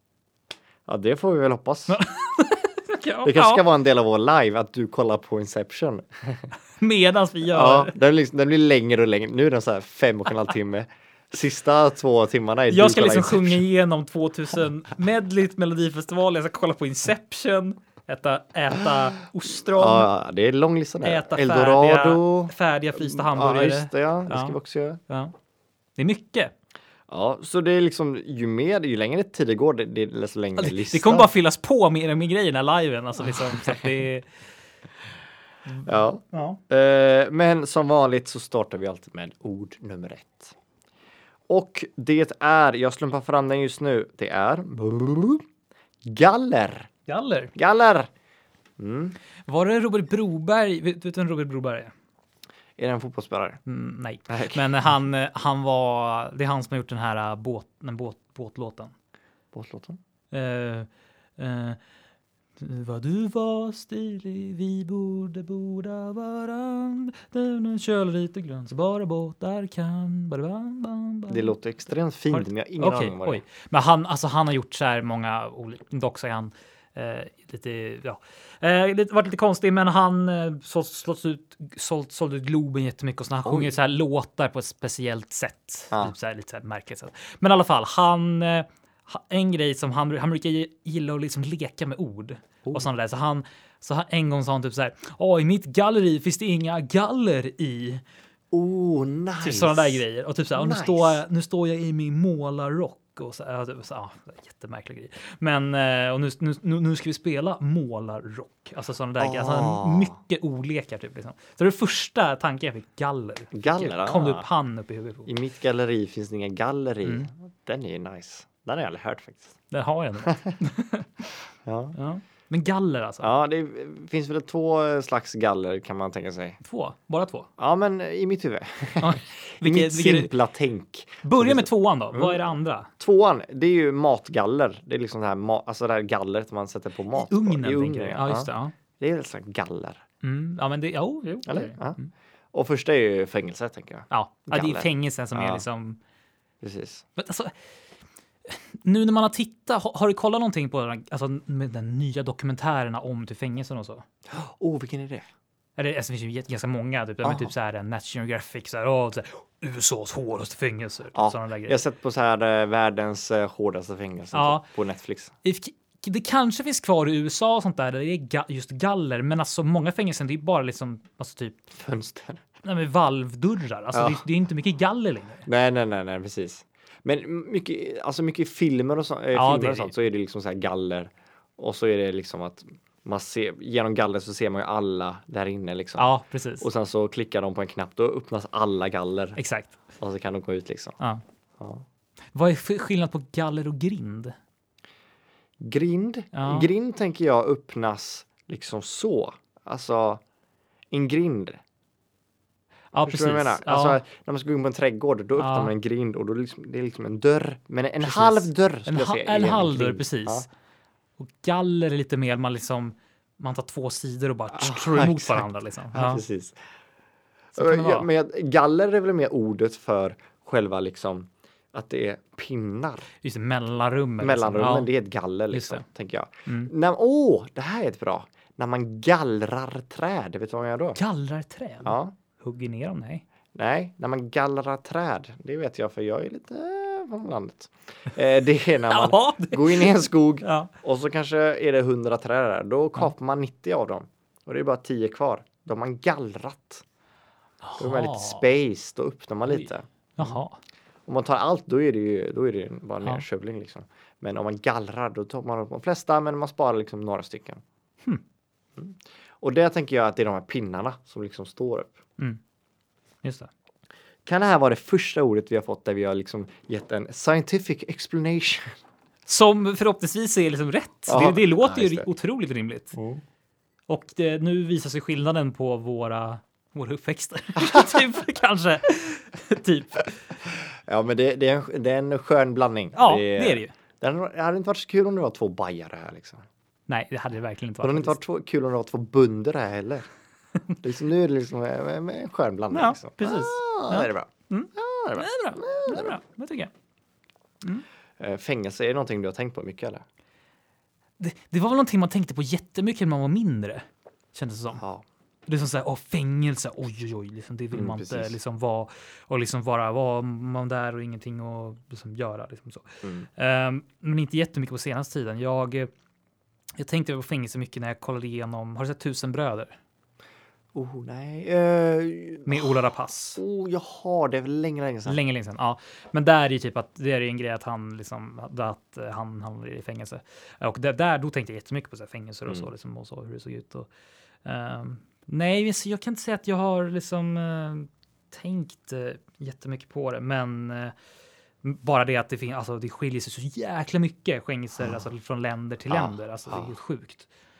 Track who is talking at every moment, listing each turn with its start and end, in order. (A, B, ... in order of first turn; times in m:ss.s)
0:00.8-0:02.0 A
0:01.9-0:03.6 B
0:03.2-0:06.5 A
0:06.8-0:08.0 B
0:07.5-0:13.6 A
0:12.7-0:20.1 B
0:19.7-0:25.0 A
0:21.0-0:24.6 B
0:25.1-0:25.3 B
0:26.0-0:26.5 B
0:27.1-0:31.3 A
0:30.6-0:34.3 B
0:35.7-0:36.6 B
0:35.8-0:40.5 A
0:41.5-0:45.4 A
0:46.0-0:46.9 A
0:47.1-0:47.5 B
0:47.5-0:48.1 A
0:48.8-0:49.2 A
0:49.5-0:51.9 B
0:52.8-0:53.6 A
0:53.6-0:58.9 B
0:54.3-0:54.6 A
0:59.5-1:00.0 A
1:00.3-1:01.8 B
1:02.6-1:11.5 B
1:11.3-1:13.4 A
1:12.3-1:38.0 B
1:23.4-1:23.7 A
1:38.5-1:41.2 A
1:39.4-1:55.3 B
1:49.2-1:50.2 A
1:53.5-1:54.4 A
1:55.2-1:59.6 A
1:59.7-2:01.1 B
2:00.2-2:00.6 A
2:01.6-2:02.0 A
2:01.9-2:03.3 B
2:03.2-2:06.6 A
2:06.6-2:07.5 B
2:07.6-2:20.0 A
2:09.0-2:10.3 B
2:11.2-2:12.9 B
2:17.1-2:18.7 B
2:20.2-2:22.1 B
2:21.4-2:22.0 A
2:22.5-2:25.6 A
2:24.1-2:26.0 B
2:26.6-2:27.0 A
2:27.2-2:27.5 B
2:28.5-2:34.0 B
2:34.3-2:35.3 A
2:35.8-2:41.8 B
2:37.2-2:37.5 A
2:41.1-2:45.3 A
2:44.3-2:44.6 B
2:45.4-2:51.6 B
2:51.7-2:52.4 A
2:52.6-2:55.4 B
2:53.9-2:54.2 A
2:55.4-3:09.4 A
2:59.3-2:59.9 B
3:06.0-3:06.7 B
3:09.4-3:09.8 B
3:10.0-3:11.0 A
3:11.6-3:11.8 A
3:12.3-3:14.3 B
3:15.6-3:20.2 A
3:16.3-3:16.7 B
3:20.9-3:21.6 A
3:22.9-3:24.0 B
3:23.0-3:30.5 A
3:25.4-3:25.7 B
3:28.0-3:30.5 B
3:31.2-3:36.2 B
3:34.5-3:36.6 A
3:37.6-3:38.1 B
3:37.6-3:43.1 A
3:43.2-3:44.9 B
3:44.2-3:51.0 A
3:45.5-3:45.8 B
3:46.4-3:46.7 B
3:51.0-3:53.2 B
3:51.8-3:52.1 A
3:53.5-4:06.8 A
3:58.9-4:00.7 B
4:07.6-4:08.4 B
4:07.8-4:10.4 A
4:09.5-4:10.6 B
4:11.1-4:17.6 A
4:18.8-4:22.0 A
4:23.2-4:23.5 B
4:24.2-4:28.8 A
4:29.3-4:33.0 B
4:31.1-4:32.1 A
4:32.9-4:33.2 A
4:33.9-4:40.3 B
4:37.6-4:38.0 A
4:40.5-4:46.4 A
4:42.9-4:43.7 B
4:46.9-4:48.2 B
4:47.8-4:50.1 A
4:50.8-4:56.2 A
4:52.7-4:56.7 B
4:58.2-5:00.0 A
5:01.2-5:04.8 B
5:04.7-5:05.0 A
5:05.5-5:15.9 B
5:07.7-5:08.3 A
5:16.8-5:19.8 B
5:20.7-5:22.8 A
5:22.4-5:23.4 B
5:23.4-5:25.2 A
5:25.0-5:33.9 B
5:34.4-5:40.9 B
5:41.6-5:47.3 B
5:45.9-5:46.7 A